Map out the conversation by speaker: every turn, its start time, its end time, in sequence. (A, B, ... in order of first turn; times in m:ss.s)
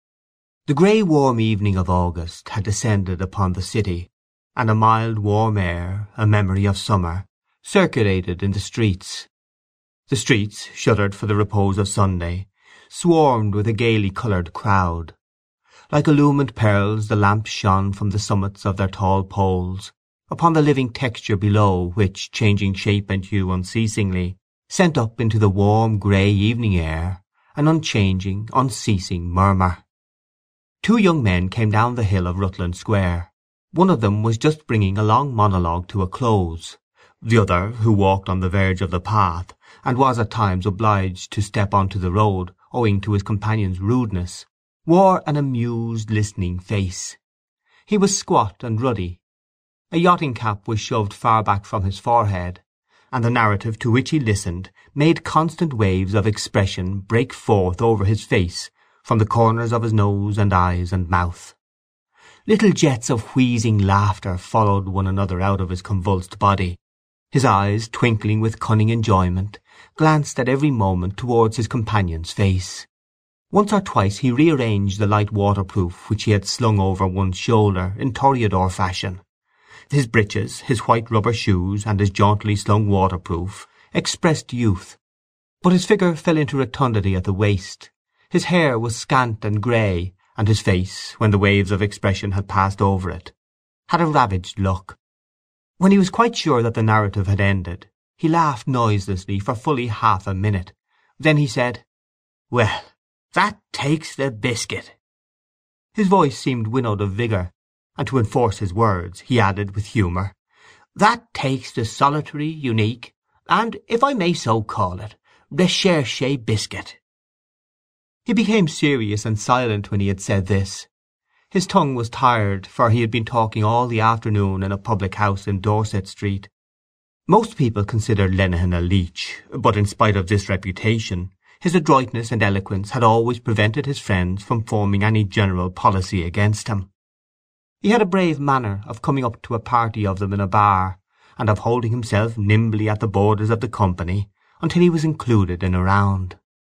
0:00.7-0:09.3 A
0:10.1-0:15.2 A
0:15.9-0:29.8 A
0:30.8-0:47.2 A
0:47.9-0:49.2 A
0:49.9-1:01.6 A
1:02.4-1:06.8 A
1:07.3-1:12.9 A
1:13.5-1:19.2 A
1:19.9-1:25.0 A
1:25.6-1:33.3 A
1:33.9-1:35.0 A
1:35.8-1:41.8 A
1:42.5-1:45.0 A
1:45.9-1:50.3 A
1:50.9-1:57.0 A
1:58.2-2:00.9 A
2:01.5-2:06.5 A
2:07.3-2:16.9 A
2:17.8-2:26.4 A